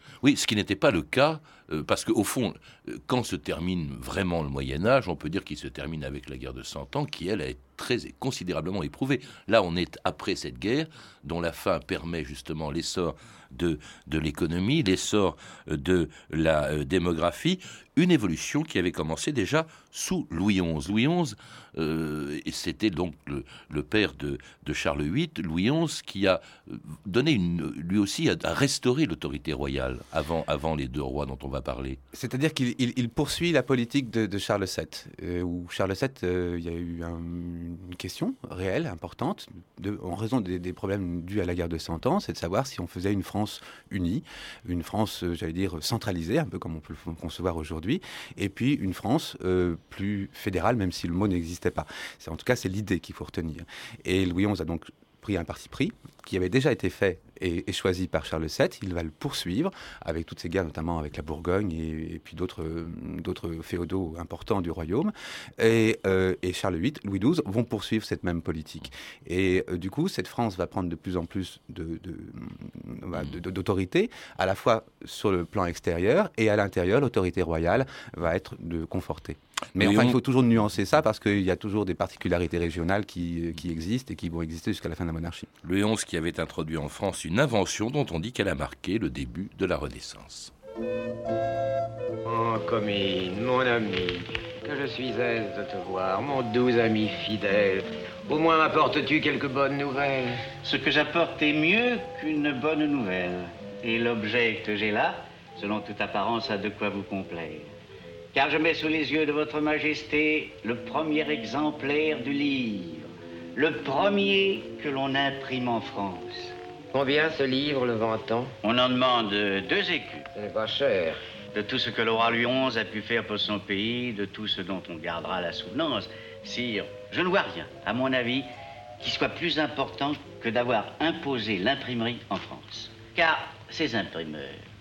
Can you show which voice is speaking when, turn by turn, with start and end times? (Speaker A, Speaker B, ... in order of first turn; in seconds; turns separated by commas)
Speaker A: 0.2-32.0, Speaker B: 32.1-85.5, Speaker A: 79.8-80.2, Speaker A: 85.6-90.5, Speaker C: 92.2-100.4, Speaker D: 100.6-107.7, Speaker D: 108.3-116.5, Speaker C: 116.9-118.5, Speaker D: 118.6-120.3, Speaker C: 120.3-121.2, Speaker D: 121.5-128.5, Speaker D: 129.0-134.6